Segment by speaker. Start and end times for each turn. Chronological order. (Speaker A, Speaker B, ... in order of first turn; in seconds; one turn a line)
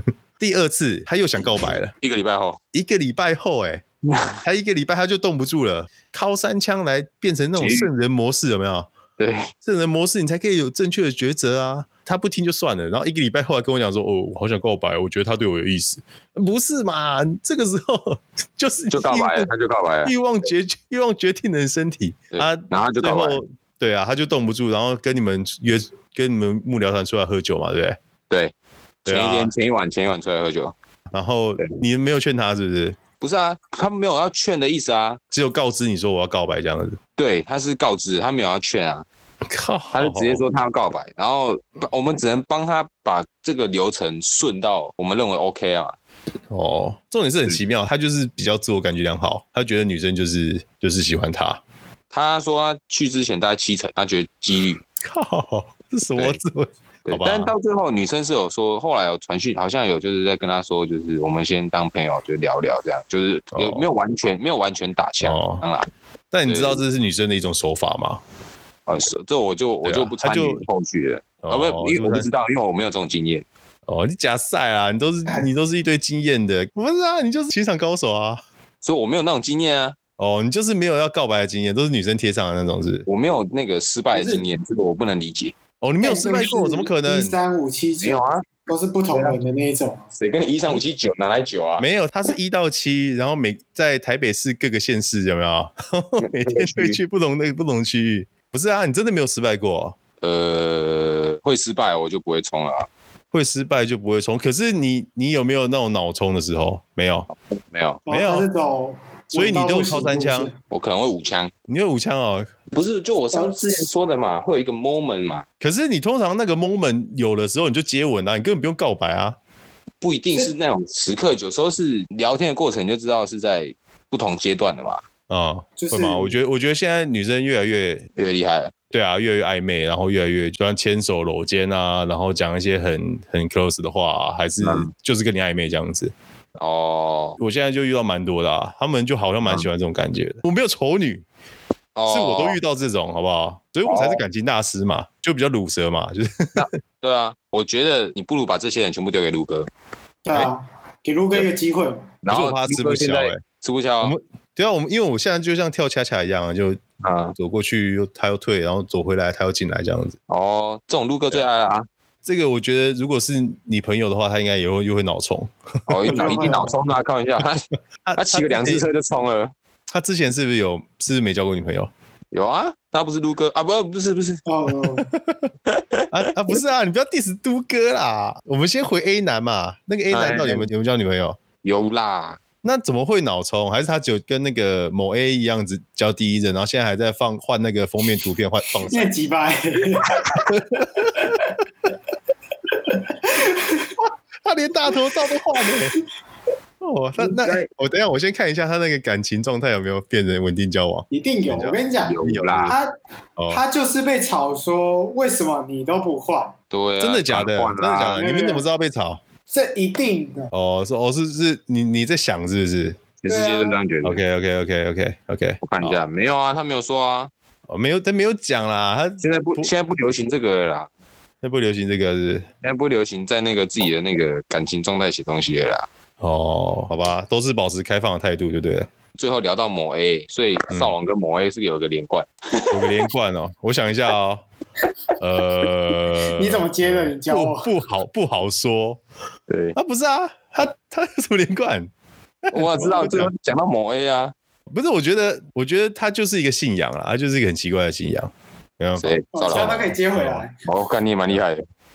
Speaker A: 0.4-1.9
Speaker B: 2.0-2.6
Speaker A: 2.7-3.9
Speaker B: 4.1-4.4
Speaker A: 4.4-8.9
Speaker B: 7.6-7.9
Speaker B: 9.2-9.5
Speaker A: 9.6-19.5
Speaker B: 18.9-20.1
Speaker A: 20.1-28.0
Speaker B: 22.3-23.4
Speaker B: 29.1-30.7
Speaker A: 29.1-29.5
Speaker A: 31.1-33.0
Speaker B: 33.2-35.2
Speaker A: 35.3-37.0
Speaker B: 37.2-39.0
Speaker A: 39.5-40.4
Speaker B: 39.9-45.9
Speaker A: 46.5-51.6
Speaker B: 52.1-54.8
Speaker A: 55.0-57.5
Speaker B: 57.1-65.9
Speaker A: 63.5-63.9
Speaker A: 65.2-65.6
Speaker A: 66.3-68.2
Speaker B: 66.5-66.8
Speaker B: 68.9-73.5
Speaker A: 69.8-70.6
Speaker A: 71.4-72.3
Speaker A: 73.9-78.4
Speaker B: 78.8-80.0
Speaker A: 80.2-83.1
Speaker B: 83.1-85.6
Speaker C: 84.1-84.4
Speaker A: 85.8-87.4
Speaker C: 86.0-90.0
Speaker B: 88.0-89.4
Speaker B: 90.1-91.9
Speaker A: 91.8-100.0
Speaker B: 96.2-97.0
Speaker B: 100.2-102.9
Speaker A: 103.3-107.3
Speaker B: 107.7-108.0
Speaker C: 108.1-110.5
Speaker A: 108.1-108.5
Speaker A: 109.3-110.5
Speaker B: 110.7-111.5
Speaker A: 111.7-112.5
Speaker B: 112.7-115.5
Speaker C: 113.3-113.6
Speaker A: 115.6-119.4
Speaker B: 120.0-125.0
Speaker A: 125.3-128.1
Speaker C: 125.8-126.4
Speaker B: 128.2-128.8
Speaker A: 128.9-136.1
Speaker B: 134.6-134.9
Speaker B: 136.6-137.4
Speaker A: 137.4-141.2
Speaker B: 141.9-142.6
Speaker A: 142.1-146.7
Speaker B: 143.9-144.2
Speaker B: 146.6-149.7
Speaker C: 150.2-152.1
Speaker B: 152.2-154.2
Speaker A: 152.3-153.4
Speaker A: 154.0-156.8
Speaker B: 157.0-157.4
Speaker A: 157.4-160.2
Speaker B: 160.3-161.9
Speaker A: 162.2-166.7
Speaker B: 165.9-167.6
Speaker C: 166.1-166.8
Speaker A: 168.1-168.8
Speaker B: 168.2-169.5
Speaker A: 169.9-171.9
Speaker B: 172.3-174.4
Speaker C: 174.5-175.1
Speaker A: 175.1-175.5
Speaker B: 175.7-176.3
Speaker A: 176.1-181.4
Speaker B: 180.1-180.7
Speaker B: 181.6-182.4
Speaker A: 182.6-189.1
Speaker C: 188.9-190.4
Speaker A: 190.5-191.3
Speaker C: 191.2-191.5
Speaker C: 192.9-194.0
Speaker A: 194.4-195.9
Speaker A: 196.8-202.8
Speaker B: 197.2-197.7
Speaker C: 201.1-202.9
Speaker B: 202.0-202.8
Speaker A: 203.4-203.6
Speaker C: 203.5-206.6
Speaker B: 206.7-208.2
Speaker A: 207.0-209.2
Speaker C: 208.1-208.7
Speaker C: 209.5-210.5
Speaker A: 210.5-213.0
Speaker B: 213.2-214.2
Speaker C: 213.3-213.8
Speaker A: 214.0-216.0
Speaker B: 215.6-217.3
Speaker A: 217.7-219.7
Speaker B: 219.2-220.9
Speaker A: 221.4-222.5
Speaker B: 222.6-225.9
Speaker A: 226.2-228.9
Speaker B: 229.2-233.0
Speaker A: 232.7-234.4
Speaker A: 235.2-239.0
Speaker C: 236.4-237.7
Speaker B: 239.5-239.8
Speaker A: 239.8-241.9
Speaker A: 242.4-243.3
Speaker B: 242.5-244.3
Speaker A: 244.7-250.5
Speaker B: 249.0-249.9
Speaker C: 249.3-250.6
Speaker B: 250.7-251.7